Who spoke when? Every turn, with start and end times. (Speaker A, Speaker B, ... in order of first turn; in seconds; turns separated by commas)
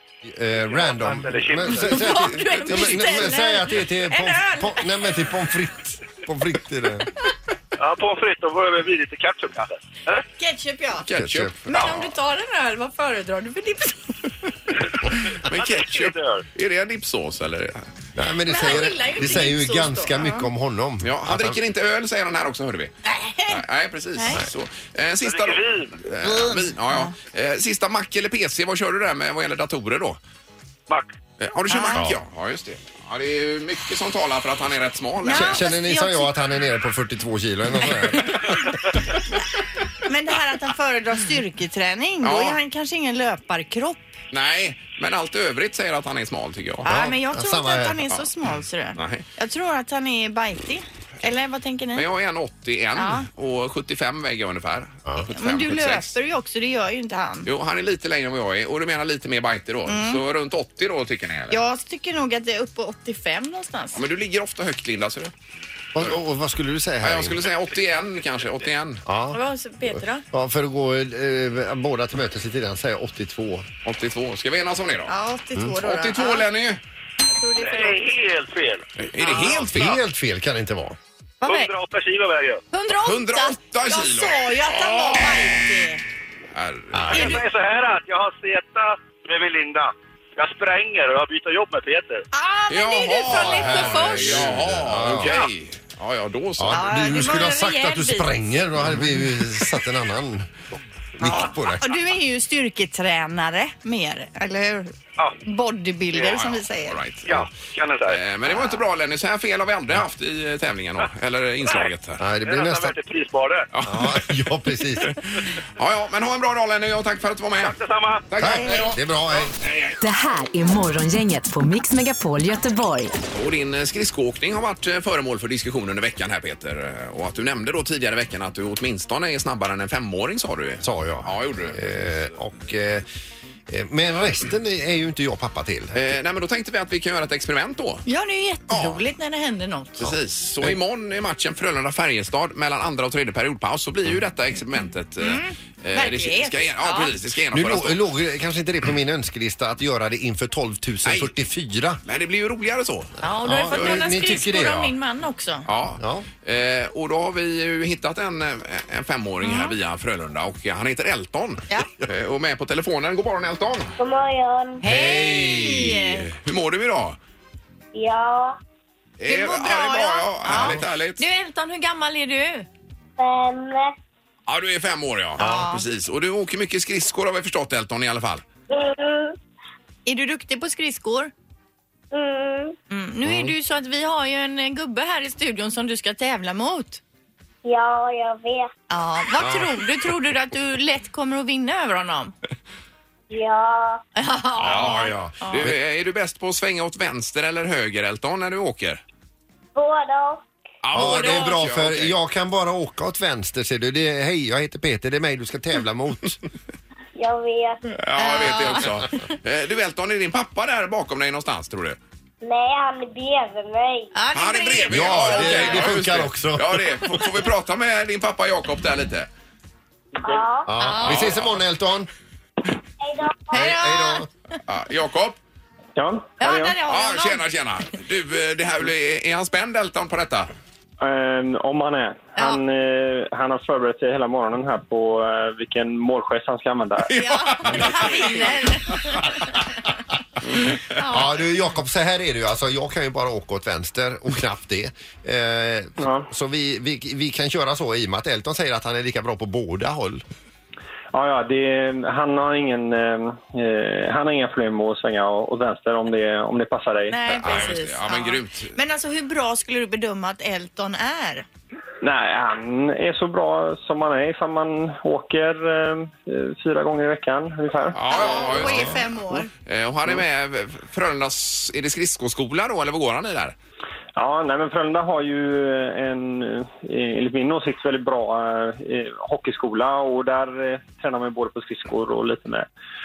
Speaker A: 0.2-7.1, Speaker B: 0.6-1.9, Speaker C: 1.8-4.8, Speaker D: 1.8-3.4, Speaker B: 7.8-10.2, Speaker C: 10.4-11.1, Speaker D: 11.0-12.1, Speaker A: 11.2-11.5, Speaker C: 11.7-14.2, Speaker D: 15.4-17.9, Speaker B: 15.5-16.4, Speaker A: 18.1-21.6, Speaker C: 18.4-20.5, Speaker D: 21.0-22.9, Speaker C: 23.1-23.6, Speaker D: 23.5-30.2, Speaker C: 24.2-24.4, Speaker B: 25.2-26.0, Speaker C: 26.2-27.1, Speaker D: 31.4-35.6, Speaker C: 31.7-32.0, Speaker C: 35.2-36.3, Speaker A: 35.3-38.5, Speaker C: 40.0-44.1, Speaker D: 42.2-42.6, Speaker D: 44.3-47.1, Speaker C: 46.8-52.1, Speaker A: 46.9-48.1, Speaker D: 49.0-49.2, Speaker D: 51.9-56.1, Speaker C: 53.0-53.3, Speaker C: 55.3-57.5, Speaker D: 57.4-61.6, Speaker C: 59.9-60.2, Speaker C: 61.5-64.0, Speaker D: 63.9-65.3, Speaker A: 65.9-67.4, Speaker D: 67.0-69.0, Speaker A: 69.0-73.7, Speaker C: 69.3-70.2, Speaker D: 73.8-75.1, Speaker C: 75.1-76.5, Speaker D: 75.8-76.8, Speaker C: 77.3-78.0, Speaker B: 77.6-78.8, Speaker D: 79.0-80.0, Speaker C: 79.2-79.6, Speaker A: 79.3-81.0, Speaker C: 81.4-81.7, Speaker B: 81.4-82.6, Speaker C: 82.7-86.0, Speaker D: 83.0-85.6, Speaker D: 86.5-87.4, Speaker A: 86.9-87.3, Speaker C: 87.1-87.4, Speaker B: 87.1-92.2, Speaker C: 92.3-94.5, Speaker D: 92.7-97.4, Speaker A: 93.3-95.5, Speaker A: 96.6-100.5, Speaker C: 96.7-98.3, Speaker A: 101.2-101.9, Speaker C: 101.2-107.0, Speaker D: 106.2-107.5, Speaker B: 107.2-108.2, Speaker D: 108.1-112.2, Speaker A: 112.2-112.9, Speaker B: 112.4-113.7, Speaker D: 113.7-114.3, Speaker A: 113.8-115.1, Speaker D: 115.8-117.8, Speaker B: 117.6-118.3, Speaker D: 118.3-119.0, Speaker A: 118.4-119.5, Speaker D: 119.6-120.0, Speaker E: 120.0-123.2, Speaker D: 123.3-131.8, Speaker A: 130.8-133.0, Speaker A: 133.7-136.0, Speaker D: 135.9-138.0, Speaker C: 138.1-140.0, Speaker D: 138.7-139.0, Speaker D: 140.0-148.0, Speaker A: 140.0-140.8, Speaker C: 145.2-147.1, Speaker A: 147.5-152.0, Speaker D: 151.0-151.3, Speaker D: 152.0-154.3, Speaker C: 153.2-155.7, Speaker A: 153.4-154.9, Speaker D: 155.7-163.9, Speaker A: 156.0-156.3, Speaker C: 159.4-159.7, Speaker F: 164.0-164.8, Speaker C: 164.8-166.3, Speaker A: 164.8-166.2, Speaker D: 166.4-167.2, Speaker F: 167.9-168.6, Speaker D: 169.2-171.2, Speaker C: 169.2-172.7, Speaker A: 170.5-170.8, Speaker F: 173.2-173.9, Speaker D: 174.5-178.4, Speaker C: 175.4-175.8, Speaker A: 175.4-175.7, Speaker F: 178.7-179.3, Speaker C: 180.1-181.3, Speaker F: 182.1-182.8, Speaker C: 182.9-187.0, Speaker A: 183.2-183.5, Speaker F: 187.6-188.7, Speaker C: 188.9-192.3, Speaker A: 189.4-189.7, Speaker F: 193.3-194.0, Speaker C: 194.2-195.7, Speaker D: 194.6-199.0, Speaker F: 199.8-200.4, Speaker D: 200.8-202.1, Speaker A: 200.9-206.4, Speaker C: 201.0-201.6, Speaker F: 207.2-207.8, Speaker D: 207.9-212.0, Speaker C: 208.2-209.1, Speaker F: 212.4-214.1, Speaker C: 214.1-216.0, Speaker D: 214.3-219.3, Speaker A: 214.9-217.2, Speaker F: 220.1-220.8, Speaker A: 220.7-222.1, Speaker C: 220.8-221.3, Speaker D: 221.0-221.6, Speaker F: 223.0-223.7, Speaker A: 223.5-224.3, Speaker C: 223.5-224.3, Speaker D: 224.7-225.4, Speaker G: 225.9-226.8, Speaker C: 226.4-227.4, Speaker D: 226.8-230.5, Speaker G: 231.0-237.1, Speaker D: 237.1-238.7, Speaker C: 237.2-239.6, Speaker C: 240.8-241.4, Speaker A: 241.0-250.2, Speaker G: 246.0-246.3, Speaker G: 251.1-257.2, Speaker C: 257.1-261.4, Speaker D: 257.3-258.7, Speaker G: 262.0-268.5, Speaker D: 267.9-269.0, Speaker C: 268.1-269.5, Speaker D: 269.6-273.5, Speaker G: 274.1-282.7